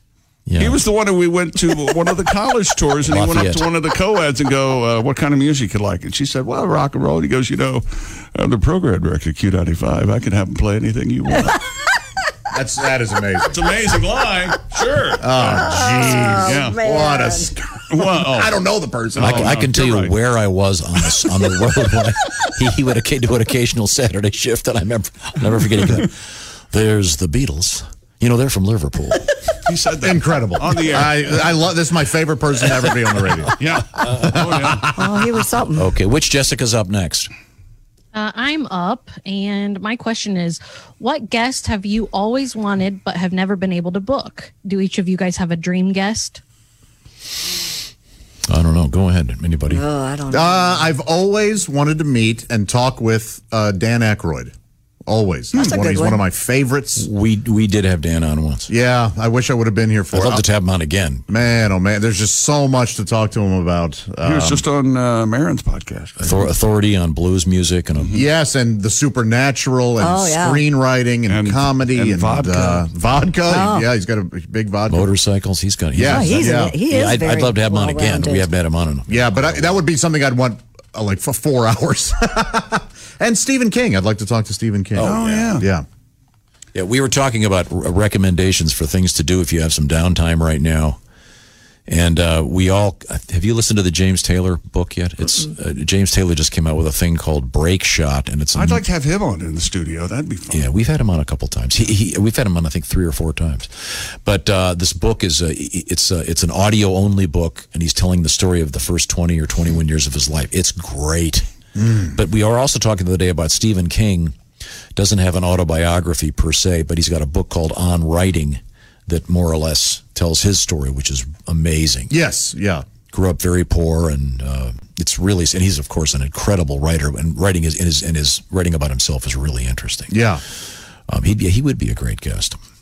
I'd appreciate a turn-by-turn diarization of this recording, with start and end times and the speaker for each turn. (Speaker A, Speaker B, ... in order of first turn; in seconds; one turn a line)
Speaker A: 0.5-0.8
Speaker B: 0.6-11.6
Speaker A: 3.1-3.7
Speaker C: 12.5-13.7
Speaker B: 13.5-15.8
Speaker C: 15.2-19.6
Speaker D: 15.5-17.5
Speaker B: 16.3-16.8
Speaker B: 17.9-18.6
Speaker B: 19.2-20.2
Speaker A: 19.2-29.3
Speaker B: 29.7-31.6
Speaker C: 30.0-35.2
Speaker B: 33.6-34.9
Speaker D: 35.0-35.9
Speaker A: 35.8-37.3
Speaker E: 38.1-46.4
Speaker A: 48.5-49.8
Speaker D: 49.7-50.9
Speaker C: 50.3-54.5
Speaker C: 55.1-57.1
Speaker D: 55.5-56.2
Speaker A: 57.0-58.7
Speaker C: 58.7-60.4
Speaker A: 60.1-61.3
Speaker C: 61.3-64.6
Speaker B: 64.2-66.4
Speaker A: 66.2-68.2
Speaker B: 68.0-68.2
Speaker C: 68.1-75.1
Speaker D: 70.0-70.6
Speaker B: 71.3-72.9
Speaker D: 73.5-73.9
Speaker A: 74.9-79.8
Speaker C: 76.0-76.8
Speaker D: 76.1-78.5
Speaker C: 79.1-85.8
Speaker A: 85.0-85.5
Speaker B: 85.0-85.7
Speaker A: 86.7-91.0
Speaker A: 91.9-98.8
Speaker B: 98.5-100.7
Speaker A: 100.5-111.5
Speaker C: 111.8-112.1
Speaker A: 112.0-114.4
Speaker A: 115.0-122.1
Speaker C: 122.1-122.9
Speaker A: 123.1-130.3
Speaker C: 130.1-130.4
Speaker A: 131.1-132.6